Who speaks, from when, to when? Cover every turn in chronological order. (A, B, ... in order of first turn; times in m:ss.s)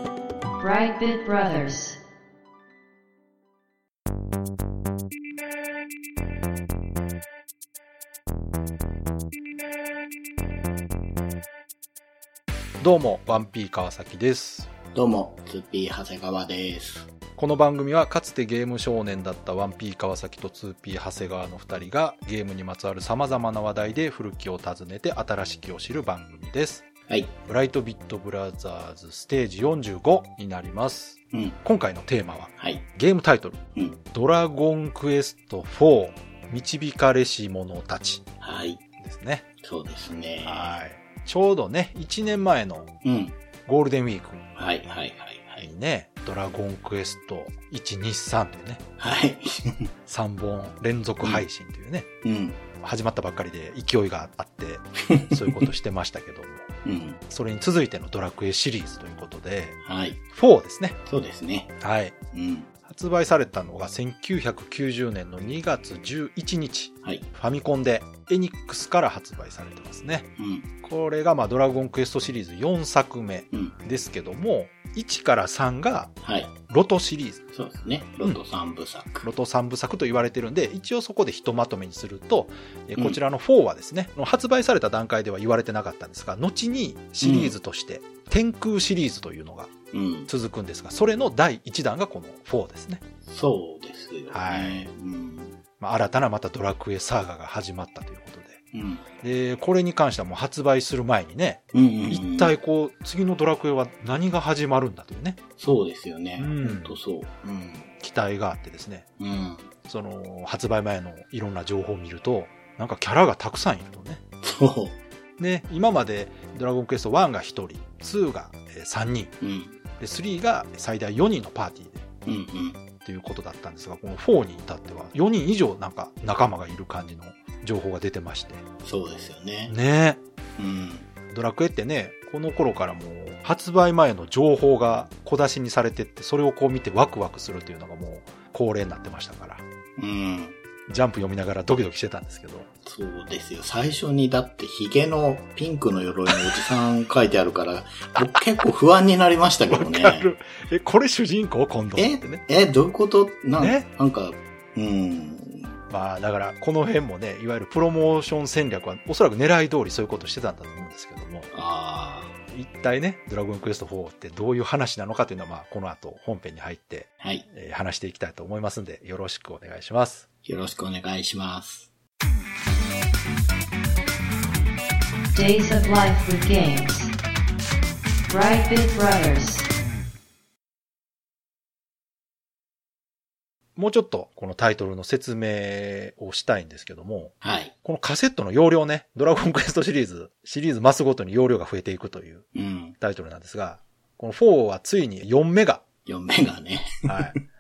0:00.6-0:02.0 A
0:12.8-0:14.7 B
0:14.9-0:17.1 C
0:17.4-0:26.9 B
0:27.4-0:33.6 B
0:31.3-0:31.6 C
0:32.6-0:32.9 C
0:34.1-0:38.2 B
0:38.4-0:38.8 C
0:39.0-0:39.4 B
0:39.6-0:40.8 C
0:40.4-0:42.9 B
0:43.0-0:43.4 C
0:43.7-0:44.4 B
0:44.6-0:45.7 C
0:45.6-0:48.8 B
0:49.0-0:49.9 C
0:50.1-0:52.1 B
0:52.2-0:52.6 C
0:52.8-0:56.7 B
0:55.0-0:55.7 C
0:56.8-0:57.2 C
0:57.3-0:59.8 B
0:59.8-1:00.2 C
1:00.3-1:01.0 B
1:01.0-1:01.7 C
1:01.8-1:02.2 B
1:02.3-1:02.7 C
1:02.8-1:10.3 B
1:10.4-1:10.7 C
1:10.8-1:16.1 B
1:16.2-1:16.5 C
1:16.7-1:17.4 B
1:17.5-1:19.3 C
1:19.2-1:29.7 B
1:27.2-1:27.6 C
1:29.9-1:30.3 C
1:30.3-1:33.0 B
1:33.2-1:35.6 C
1:34.3-1:34.9 B
1:35.8-1:38.6 B
1:38.7-1:39.0 C
1:39.2-1:45.4 B
1:41.7-1:42.5 C
1:45.6-1:47.9 C
1:46.4-1:47.0 B
1:48.0-1:49.1 B
1:49.2-1:49.7 C
1:49.8-1:54.2 B
1:54.4-1:55.0 C
1:55.4-1:59.3 B
1:59.4-1:59.8 C
2:00.0-2:02.0 B
2:02.2-2:02.8 C
2:03.0-2:08.6 B
2:08.8-2:09.8 C
2:09.7-2:10.2 B
2:10.6-2:11.1 C
2:11.3-2:19.6 B
2:20.0-2:20.6 C
2:20.9-2:22.7 B
2:22.8-2:30.3 C
2:29.7-2:32.4 B
2:31.9-2:35.8 C
2:33.6-2:33.9 B
2:35.9-2:41.5 B
2:41.5-2:42.4 C
2:42.5-2:50.2 B
2:47.2-2:47.5 C
2:50.4-2:51.9 C
2:55.3-2:57.1 A
2:58.3-2:59.7 A
3:03.8-3:12.5 B
3:07.4-3:07.7 C
3:12.6-3:13.0 C
3:13.0-3:15.8 B
3:16.1-3:17.4 C
3:17.1-3:17.4 B